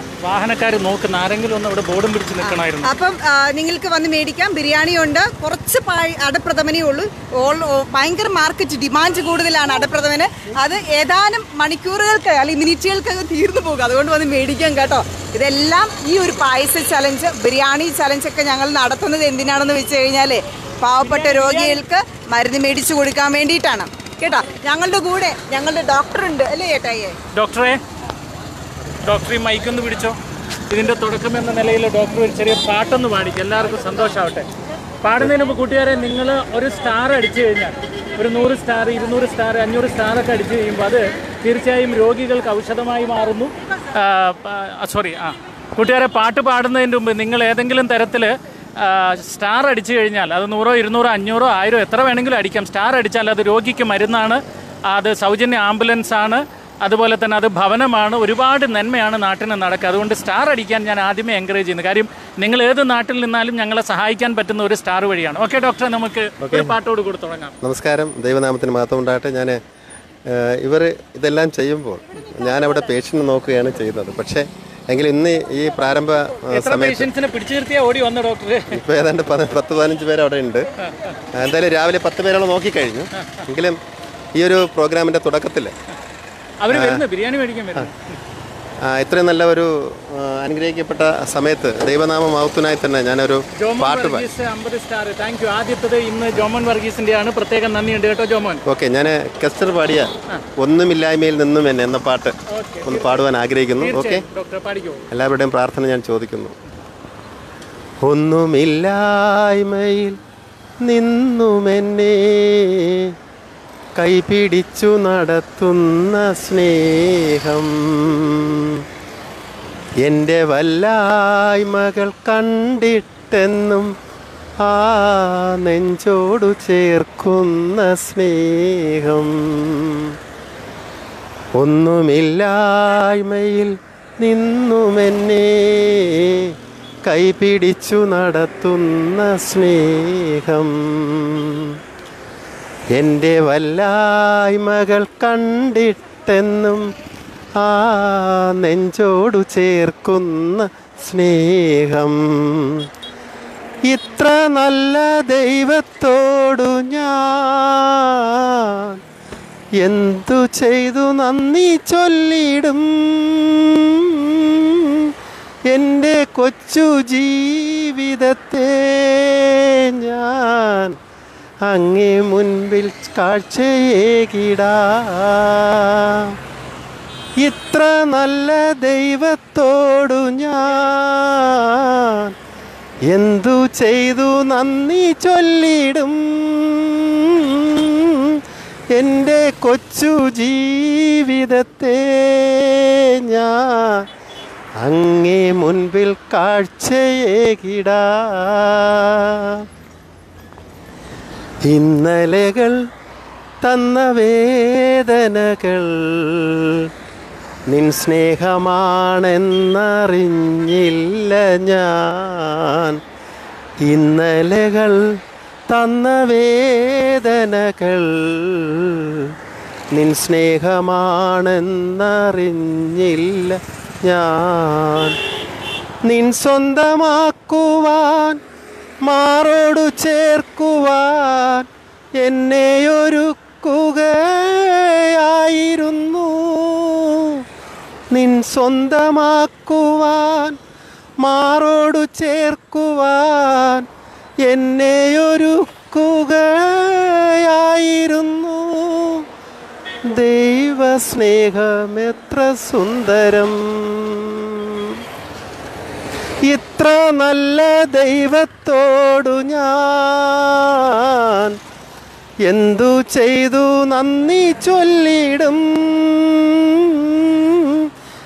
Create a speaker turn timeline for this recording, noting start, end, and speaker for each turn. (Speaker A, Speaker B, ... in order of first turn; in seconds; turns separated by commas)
Speaker A: 0.2-2.9, Speaker B: 2.4-27.1, Speaker A: 21.0-21.8, Speaker A: 27.3-27.8, Speaker A: 29.0-30.2, Speaker A: 30.7-34.5, Speaker A: 35.0-67.5, Speaker C: 66.4-66.7, Speaker C: 67.6-69.6, Speaker C: 70.3-77.1, Speaker A: 76.5-78.8, Speaker C: 78.7-80.6, Speaker C: 81.4-83.8, Speaker C: 84.4-85.7, Speaker A: 86.6-88.2, Speaker C: 86.7-87.0, Speaker C: 88.9-94.2, Speaker A: 93.6-98.6, Speaker C: 98.7-102.3, Speaker A: 102.5-103.2, Speaker C: 102.8-104.2, Speaker A: 103.8-105.0, Speaker C: 105.1-106.5, Speaker C: 108.0-110.2, Speaker C: 110.8-113.1, Speaker C: 114.0-118.8, Speaker C: 120.0-123.9, Speaker C: 124.6-130.2, Speaker C: 131.6-136.5, Speaker C: 137.1-141.8, Speaker C: 142.9-146.9, Speaker C: 147.6-152.9, Speaker C: 153.9-159.0, Speaker C: 159.8-165.1, Speaker C: 165.7-171.0, Speaker C: 171.7-176.3, Speaker C: 177.4-182.3, Speaker C: 183.1-188.4, Speaker C: 188.9-194.1, Speaker C: 194.8-199.7, Speaker C: 201.6-202.8, Speaker C: 203.6-206.9, Speaker C: 207.7-213.0, Speaker C: 213.8-219.3, Speaker C: 219.9-225.2, Speaker C: 226.1-228.4, Speaker C: 229.0-237.4, Speaker C: 238.1-240.6, Speaker C: 241.2-243.8, Speaker C: 244.4-249.2, Speaker C: 250.1-255.0, Speaker C: 256.5-261.6, Speaker C: 262.4-267.9